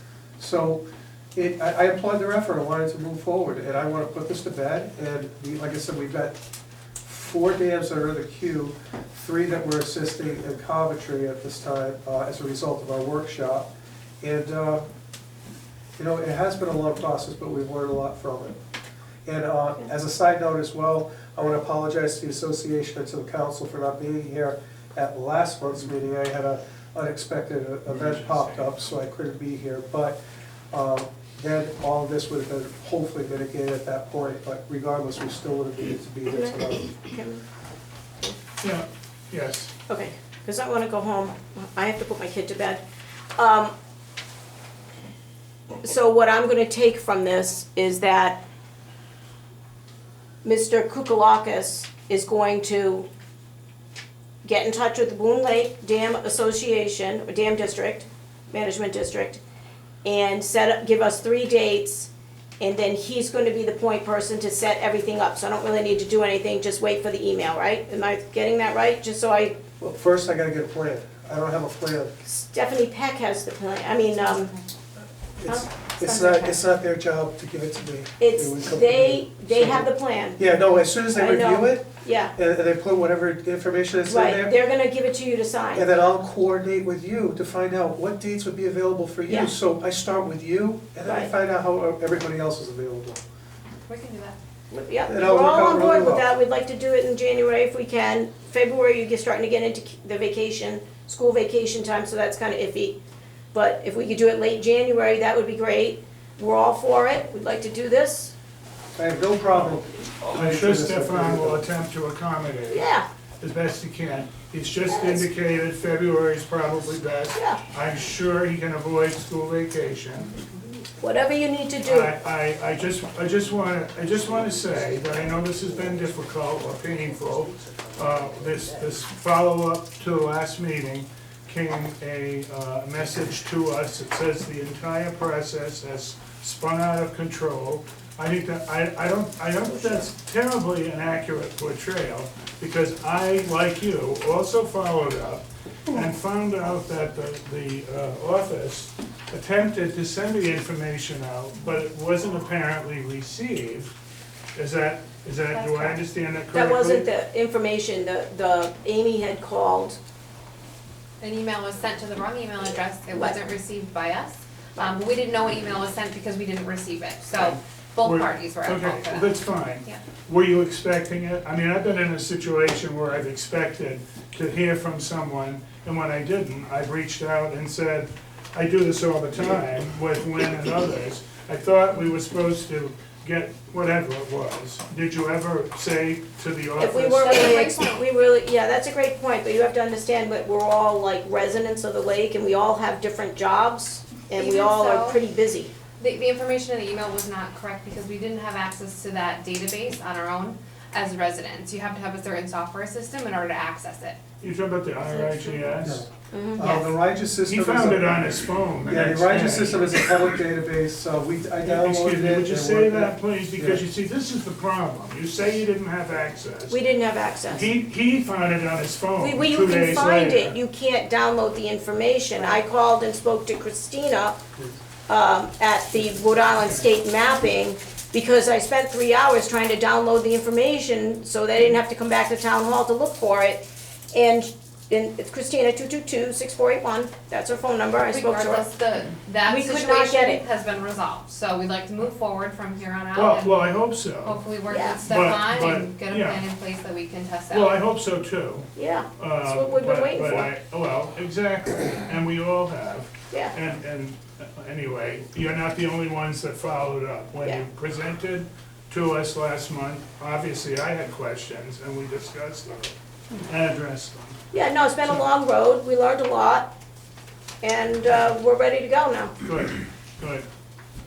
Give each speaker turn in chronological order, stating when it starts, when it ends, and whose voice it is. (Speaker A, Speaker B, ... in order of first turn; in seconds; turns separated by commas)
Speaker A: 0.4-0.8, Speaker A: 1.3-6.3, Speaker A: 7.0-13.7, Speaker A: 14.2-14.8, Speaker A: 16.0-18.6, Speaker A: 19.2-30.1, Speaker B: 28.0-28.9, Speaker A: 30.7-36.9, Speaker C: 36.3-37.4, Speaker B: 38.6-39.7, Speaker C: 39.9-42.8, Speaker C: 43.4-43.7, Speaker C: 45.8-48.4, Speaker C: 50.4-53.1, Speaker C: 54.4-59.4, Speaker C: 60.0-69.6, Speaker A: 69.8-72.1, Speaker C: 72.2-74.5, Speaker A: 75.4-84.5, Speaker C: 75.5-76.6, Speaker C: 78.2-80.4, Speaker C: 81.1-82.3, Speaker C: 84.1-85.9, Speaker A: 85.7-93.2, Speaker C: 89.3-89.5, Speaker C: 91.0-91.3, Speaker D: 93.9-94.4, Speaker C: 94.7-103.0, Speaker A: 95.1-96.3, Speaker C: 103.5-108.3, Speaker A: 109.0-111.7, Speaker B: 110.3-112.8, Speaker C: 112.7-113.0, Speaker B: 113.4-120.3, Speaker C: 114.9-115.2, Speaker C: 121.0-122.1, Speaker B: 121.8-153.9, Speaker A: 124.3-126.6, Speaker A: 127.2-129.0, Speaker B: 154.5-157.1, Speaker D: 155.5-156.0, Speaker C: 156.5-160.0, Speaker D: 161.2-170.0, Speaker B: 167.4-187.3, Speaker C: 186.8-195.7, Speaker D: 187.2-188.0, Speaker D: 194.3-195.2, Speaker D: 196.0-204.2, Speaker B: 204.4-206.0, Speaker D: 205.1-205.7, Speaker A: 205.8-208.1, Speaker C: 206.3-206.7, Speaker D: 206.6-206.9, Speaker B: 207.4-210.0, Speaker A: 208.8-213.8, Speaker B: 211.6-216.8, Speaker C: 216.7-217.7, Speaker B: 217.5-220.6, Speaker C: 219.2-224.4, Speaker D: 222.3-222.6, Speaker C: 225.1-238.7, Speaker D: 238.1-247.8, Speaker C: 239.4-240.4, Speaker B: 243.1-244.4, Speaker C: 244.7-245.0, Speaker B: 245.1-246.4, Speaker B: 247.5-264.4, Speaker C: 248.8-250.5, Speaker C: 264.5-266.7, Speaker C: 267.6-269.3, Speaker B: 269.4-270.5